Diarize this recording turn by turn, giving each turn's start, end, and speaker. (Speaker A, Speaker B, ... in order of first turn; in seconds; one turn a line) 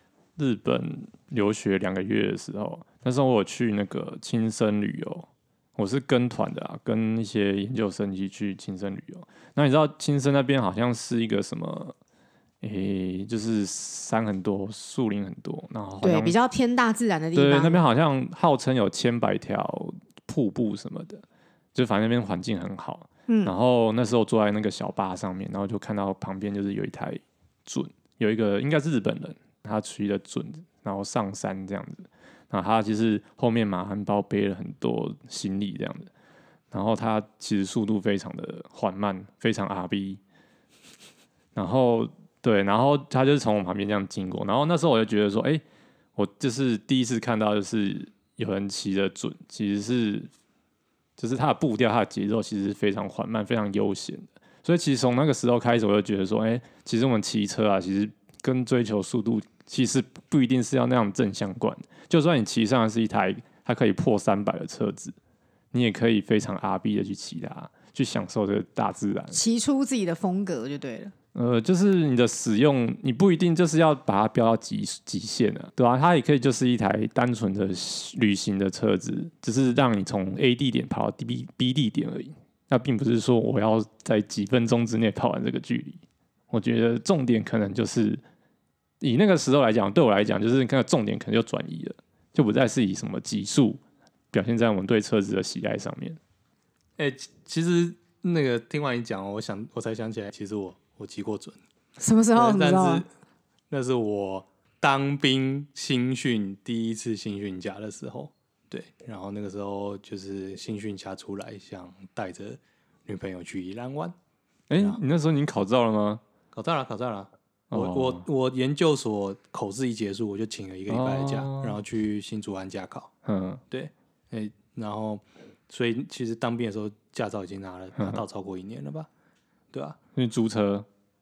Speaker A: 0.4-11.9
Speaker A: 12.6-16.4
Speaker B: 16.0-17.8
Speaker A: 17.4-21.2
Speaker A: 21.8-36.1
Speaker B: 23.3-23.5
Speaker A: 36.7-40.2
Speaker A: 41.5-45.6
Speaker A: 46.2-50.3
Speaker A: 51.2-65.2
Speaker A: 65.7-69.4
Speaker B: 69.3-71.1
Speaker A: 71.3-88.2
Speaker A: 89.0-93.8
Speaker A: 94.3-96.2
Speaker C: 97.0-101.6
Speaker B: 102.0-103.0
Speaker C: 102.3-103.1
Speaker C: 103.7-114.2
Speaker A: 114.7-116.2
Speaker C: 114.8-115.0
Speaker C: 116.5-123.1
Speaker A: 117.7-118.2
Speaker A: 120.9-121.8
Speaker A: 123.2-123.6
Speaker C: 123.7-129.1
Speaker C: 129.7-130.0
Speaker A: 130.2-130.9